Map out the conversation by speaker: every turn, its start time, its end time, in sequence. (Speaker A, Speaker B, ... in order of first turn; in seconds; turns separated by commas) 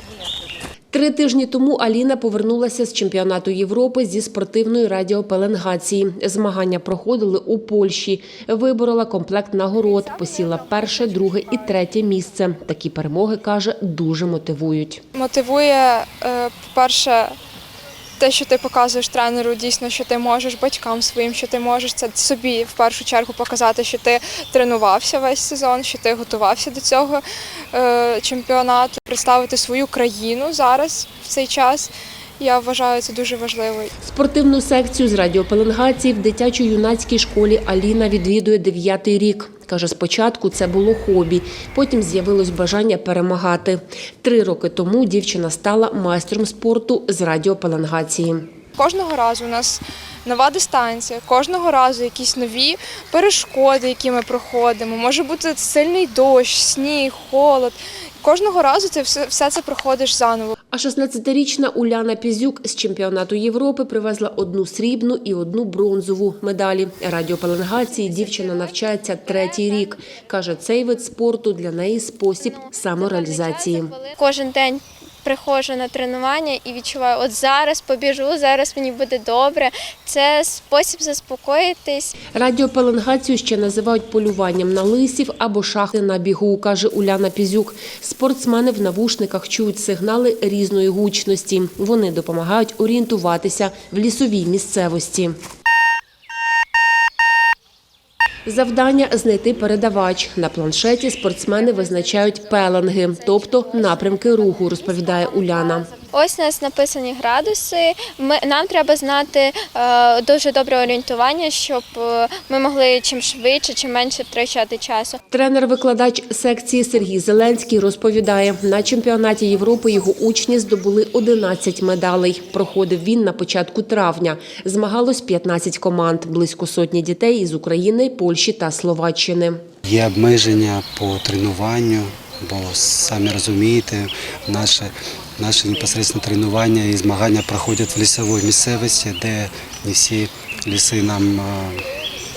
Speaker A: 0.9-15.0, Speaker B: 15.2-17.4, Speaker B: 18.2-33.9, Speaker A: 34.0-48.5, Speaker B: 48.8-60.6, Speaker A: 60.7-74.0, Speaker C: 68.3-69.8, Speaker C: 72.4-82.2, Speaker A: 82.3-95.4, Speaker A: 98.5-105.9, Speaker C: 103.5-115.2, Speaker A: 115.3-129.6, Speaker D: 129.8-141.9